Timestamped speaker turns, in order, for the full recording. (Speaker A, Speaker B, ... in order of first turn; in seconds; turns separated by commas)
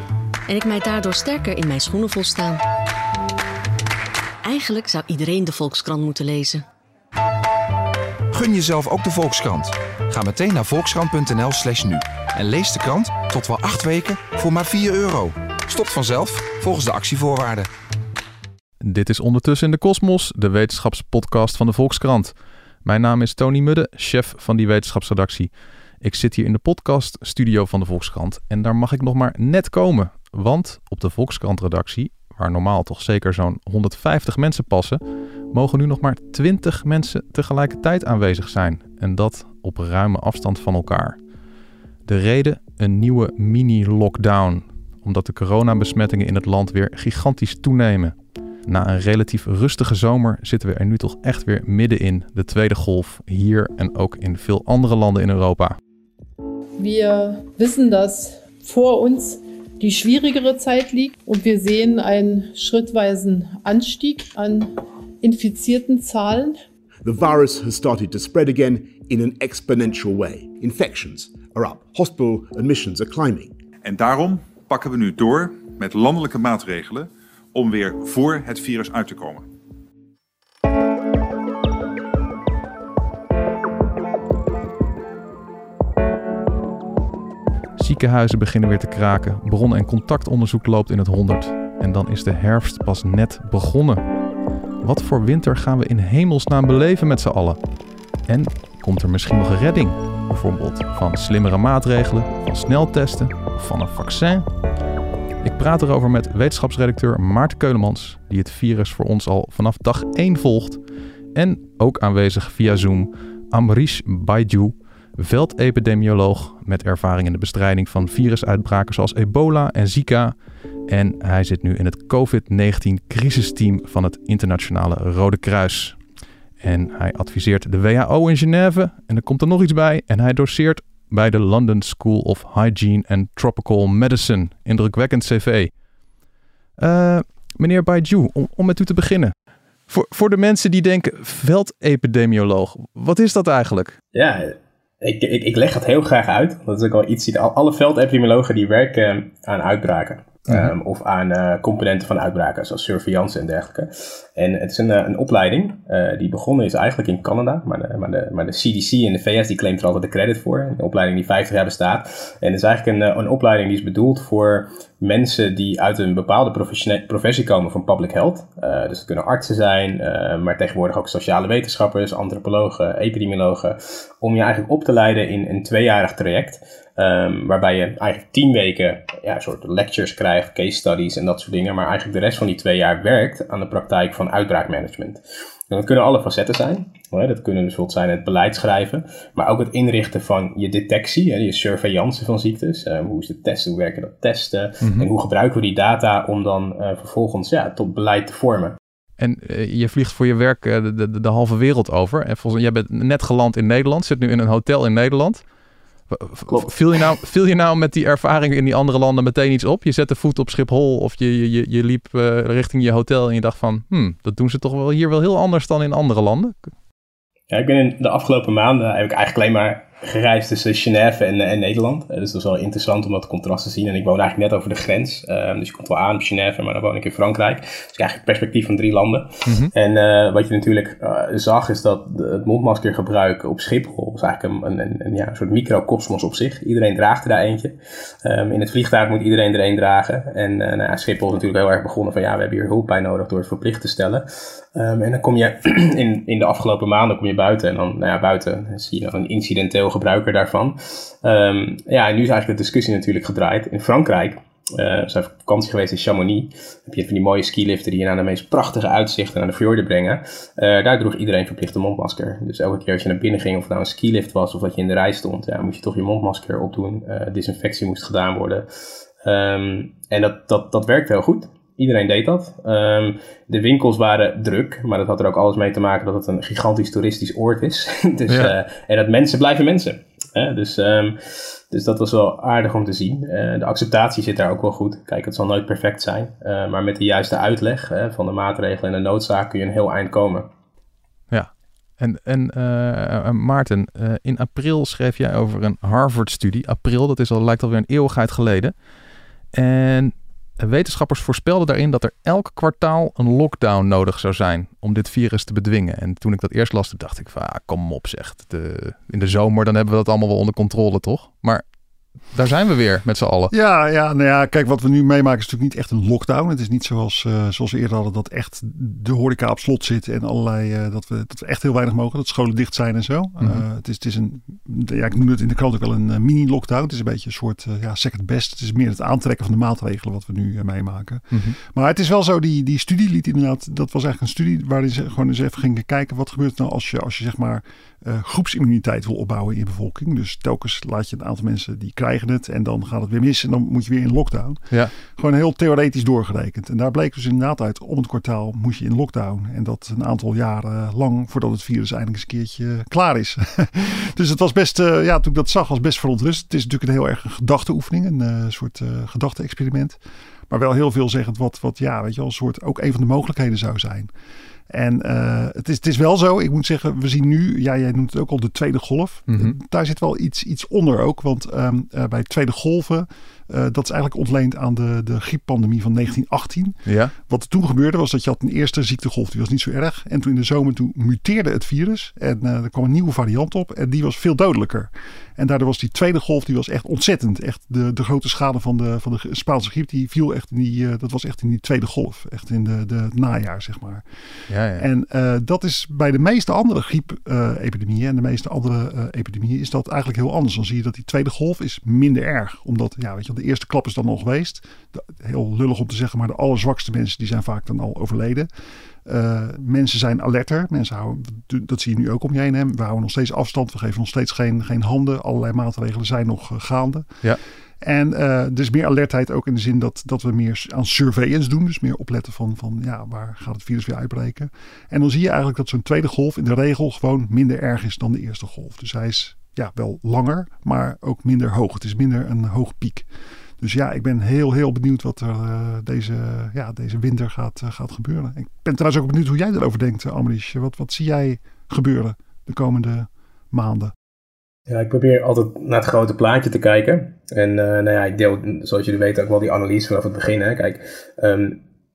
Speaker A: 0.5-2.6, Speaker A: 4.4-6.6, Speaker B: 8.3-17.7, Speaker C: 18.8-22.3, Speaker C: 22.8-25.5, Speaker C: 26.0-41.2, Speaker C: 42.0-48.1, Speaker C: 48.6-55.8, Speaker D: 56.8-66.6, Speaker E: 67.0-73.5, Speaker F: 73.8-79.5, Speaker C: 87.8-94.0, Speaker C: 94.8-97.6, Speaker C: 98.3-104.5, Speaker C: 105.4-110.8, Speaker C: 111.3-120.3, Speaker C: 120.9-126.0, Speaker C: 126.6-135.7, Speaker C: 136.8-139.3, Speaker C: 139.9-143.9, Speaker G: 144.1-198.8, Speaker C: 194.8-195.1, Speaker C: 199.2-205.4, Speaker C: 206.1-216.7, Speaker G: 217.5-268.6, Speaker C: 229.4-229.7, Speaker G: 269.2-290.5, Speaker C: 291.3-298.7, Speaker C: 299.5-311.6, Speaker C: 312.3-313.5, Speaker H: 313.5-360.0, Speaker C: 331.3-331.6, Speaker H: 360.5-364.1, Speaker H: 364.7-394.0, Speaker C: 369.3-369.6, Speaker C: 376.9-377.1, Speaker C: 394.5-394.8, Speaker H: 394.7-408.5, Speaker H: 409.0-417.1, Speaker H: 417.8-433.1, Speaker H: 433.6-443.9, Speaker G: 444.7-451.6